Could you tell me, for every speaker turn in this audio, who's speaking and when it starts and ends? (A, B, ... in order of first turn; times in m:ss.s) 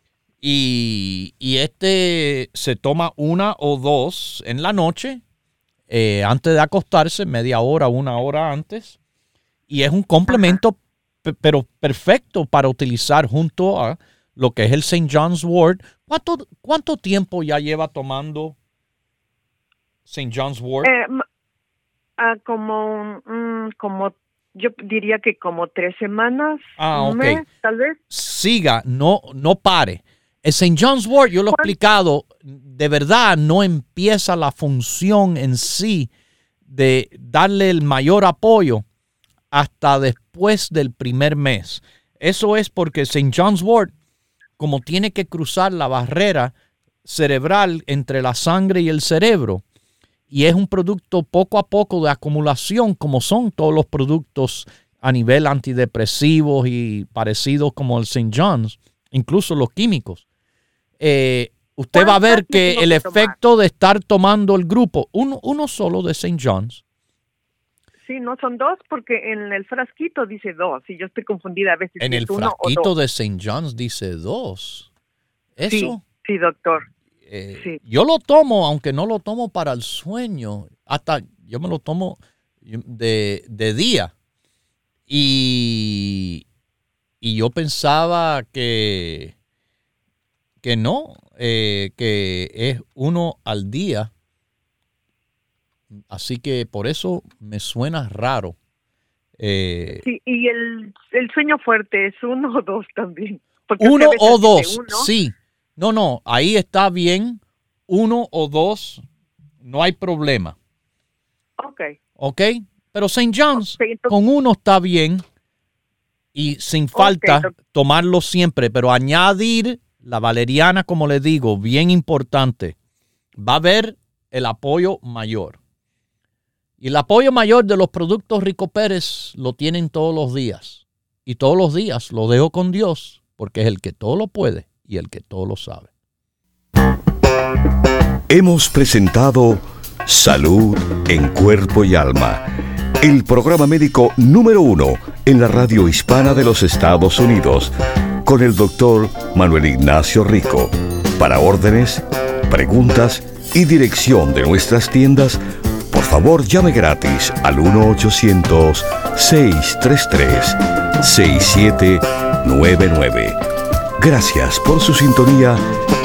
0:00.4-0:05.2 A
0:05.9-0:09.0 A
0:09.7-0:18.6 A
0:20.1-0:20.9 A
0:20.8-0:21.2 B
0:22.2-0:28.0 B
0:26.8-0:27.4 A
0:28.1-0:36.1 A
0:36.7-0:38.8 A
0:39.5-0:43.9 A
0:44.6-0:46.5 A
0:47.0-0:49.6 A
0:50.3-1:00.2 A
1:01.0-1:06.8 A
1:02.0-1:03.3 B
1:08.0-1:12.9 B
1:12.0-1:14.9 A
1:15.6-1:16.0 A
1:15.7-1:16.8 B
1:17.3-1:24.1 A
1:25.1-1:26.4 A
1:27.2-1:29.3 A
1:30.6-1:34.1 A
1:35.9-1:38.6 A
1:39.4-1:40.0 A
1:40.0-1:45.1 B
1:43.8-1:49.0 A
1:49.6-1:50.6 A
1:51.6-1:52.0 B
1:52.2-1:55.2 A
1:53.7-1:54.1 B
1:56.4-2:02.8 A
1:57.0-1:57.5 B
2:03.4-2:05.6 A
2:06.8-2:15.9 A
2:18.3-2:22.4 C
2:23.0-2:27.7 C
2:28.2-2:43.4 C
2:44.0-2:45.6 C